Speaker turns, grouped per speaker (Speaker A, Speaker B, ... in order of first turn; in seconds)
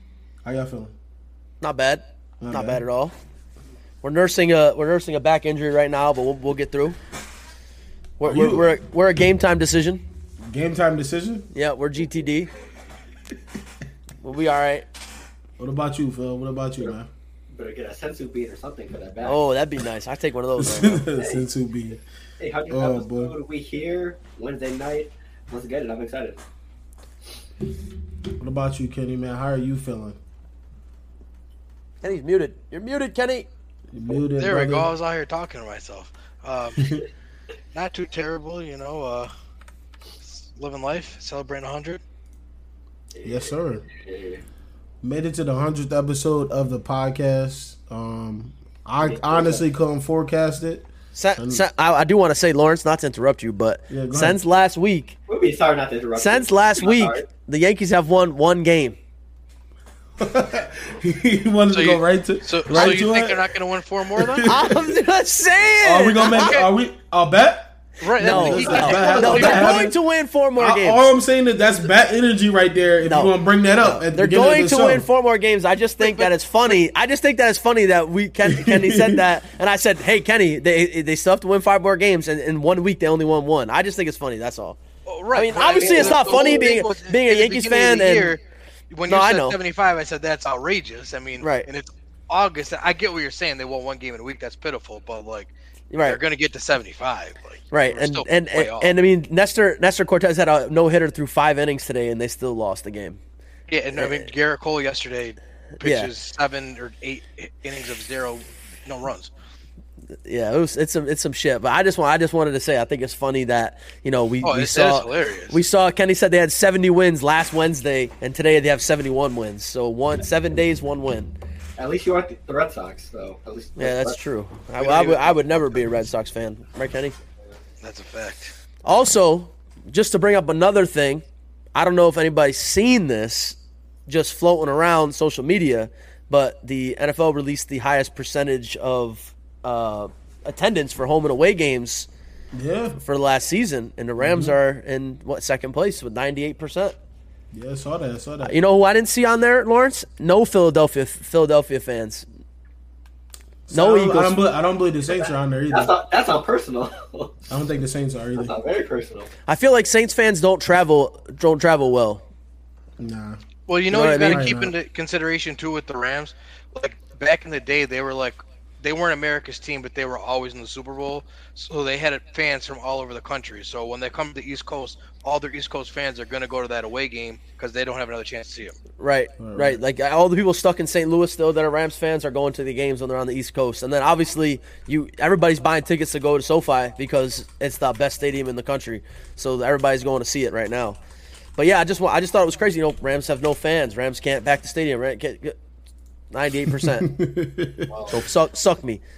Speaker A: 0.4-0.9, 2.4-2.8, 8.2-8.7, 10.5-11.5, 15.6-17.1, 20.6-22.0, 22.7-23.3, 28.4-30.2, 33.9-34.9, 36.8-37.0, 43.2-43.8, 45.0-51.6, 53.9-54.4, 60.2-63.5, 64.1-65.0, 65.8-70.0, 70.5-75.1, 78.4-79.2, 142.5-143.0, 144.2-144.6, 147.5-148.6, 153.7-155.9, 157.5-158.5, 163.0-163.4, 164.2-164.7, 179.4-179.8, 196.7-197.9
Speaker B: 1.6-3.1, 4.0-7.0, 8.2-10.0, 11.5-12.5, 14.2-14.8, 19.2-21.0, 32.0-33.5, 51.1-55.1, 56.1-59.0, 64.4-66.6, 68.2-71.1, 73.0-84.8, 85.3-88.4, 89.0-89.6, 91.4-91.7, 95.9-96.2, 97.7-103.2, 104.0-104.3, 105.8-106.1, 110.2-121.3, 123.8-127.2, 128.8-131.2, 131.7-142.1, 143.0-146.9, 148.4-152.2, 153.7-154.4, 159.4-162.2, 163.9-164.5, 179.0-191.0, 191.6-195.6, 196.3-197.1, 198.1-199.0
Speaker C: 17.5-19.4, 21.2-21.4, 22.4-26.4, 43.1-44.4, 49.0-49.6, 55.3-57.2, 68.6-69.6, 85.8-86.7, 121.8-124.2, 155.1-157.4, 158.3-159.3
Speaker D: 34.4-37.0, 37.7-39.3, 40.2-42.0, 61.7-64.5, 66.3-66.7, 68.0-69.9, 76.0-76.8, 85.0-95.5, 96.0-98.9, 103.7-109.3, 114.4-115.5, 124.8-125.9, 127.8-128.5, 163.7-178.8